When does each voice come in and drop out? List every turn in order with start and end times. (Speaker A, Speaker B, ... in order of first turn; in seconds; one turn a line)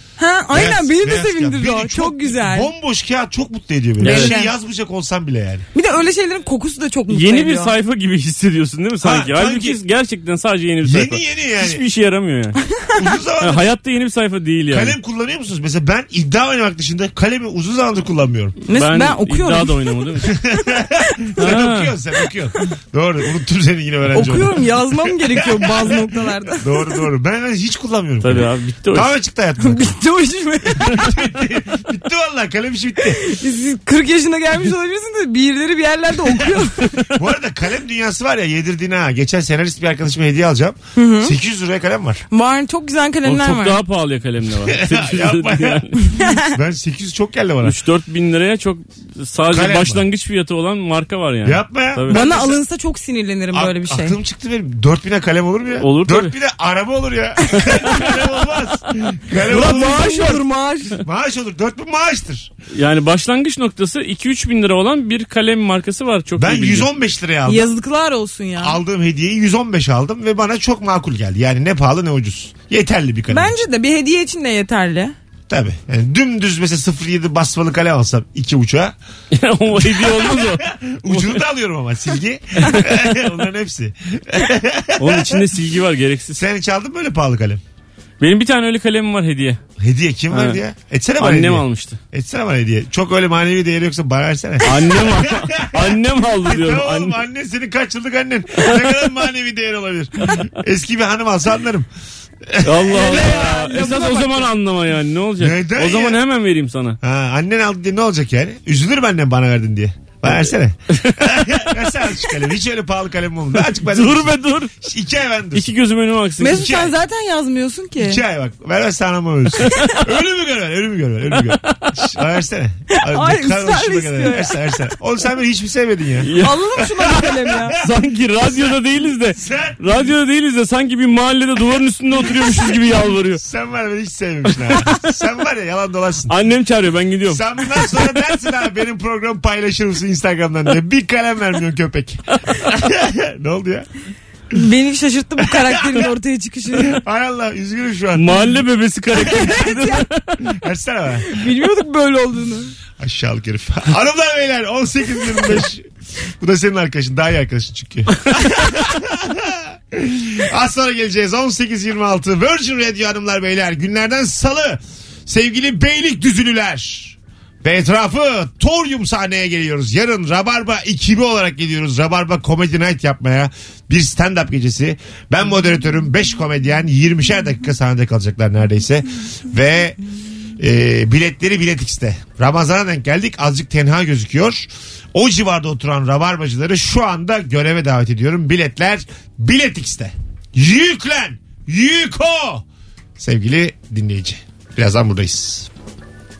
Speaker A: 0.2-2.7
Speaker B: 0.5-5.7
Speaker A: 4.0-4.5
Speaker C: 4.0-4.3
Speaker A: 5.7-7.7
Speaker C: 7.1-12.6
Speaker B: 9.0-9.8
Speaker B: 10.8-11.8
Speaker B: 13.0-13.7
Speaker C: 13.4-15.0
Speaker B: 14.7-18.6
Speaker A: 18.6-20.1
Speaker C: 18.7-20.3
Speaker B: 20.3-30.0
Speaker A: 20.7-21.3
Speaker C: 21.4-21.9
Speaker A: 24.1-27.0
Speaker C: 28.2-29.1
Speaker A: 29.6-31.2
Speaker B: 30.8-33.3
Speaker A: 33.1-37.0
Speaker B: 37.1-42.2
Speaker A: 41.0-41.3
Speaker A: 42.3-43.8
Speaker C: 43.2-46.0
Speaker B: 44.7-45.9
Speaker B: 46.4-47.8
Speaker C: 47.6-52.2
Speaker B: 49.5-50.0
Speaker B: 51.4-52.6
Speaker A: 52.1-54.2
Speaker B: 53.5-60.4
Speaker C: 55.8-56.3
Speaker A: 59.5-61.0
Speaker C: 60.1-60.3
Speaker B: 61.0-62.5
Speaker C: 62.7-66.9
Speaker B: 66.4-67.7
Speaker A: 67.5-68.8
Speaker B: 68.6-73.6
Speaker A: 73.3-75.1
Speaker B: 75.5-78.9
Speaker C: 79.3-81.4
Speaker B: 79.8-85.4
Speaker C: 82.6-83.2
Speaker C: 85.0-86.4
Speaker B: 86.3-87.6
Speaker C: 88.2-89.6
Speaker B: 89.8-101.9
Speaker C: 90.3-90.6
Speaker C: 91.2-92.0
Speaker C: 94.6-97.2
Speaker B: 102.4-103.2
Speaker C: 102.6-107.0
Speaker A: 102.9-104.5
Speaker B: 105.4-106.2
Speaker B: 107.0-115.7
Speaker C: 110.9-111.8
Speaker C: 113.7-114.7
Speaker C: 115.5-116.7
Speaker A: 116.4-118.2
Speaker B: 116.5-116.9
Speaker B: 118.0-126.3
Speaker C: 119.6-120.0
Speaker C: 121.4-121.9
Speaker A: 122.9-124.5
Speaker C: 126.2-126.6
Speaker A: 126.4-127.8
Speaker B: 127.0-127.7
Speaker C: 127.8-133.4
Speaker B: 129.3-129.8
Speaker B: 133.4-136.4
Speaker C: 136.3-138.0
Speaker B: 137.2-143.9
Speaker A: 144.5-147.0
Speaker B: 145.5-146.1
Speaker B: 146.7-148.6
Speaker C: 148.1-150.4
Speaker B: 149.2-149.6
Speaker A: 149.4-150.0
Speaker B: 150.5-151.5
Speaker A: 151.3-152.7
Speaker B: 153.0-155.9
Speaker B: 156.4-180.0
Speaker B: 180.6-192.6
Speaker B: 193.2-195.7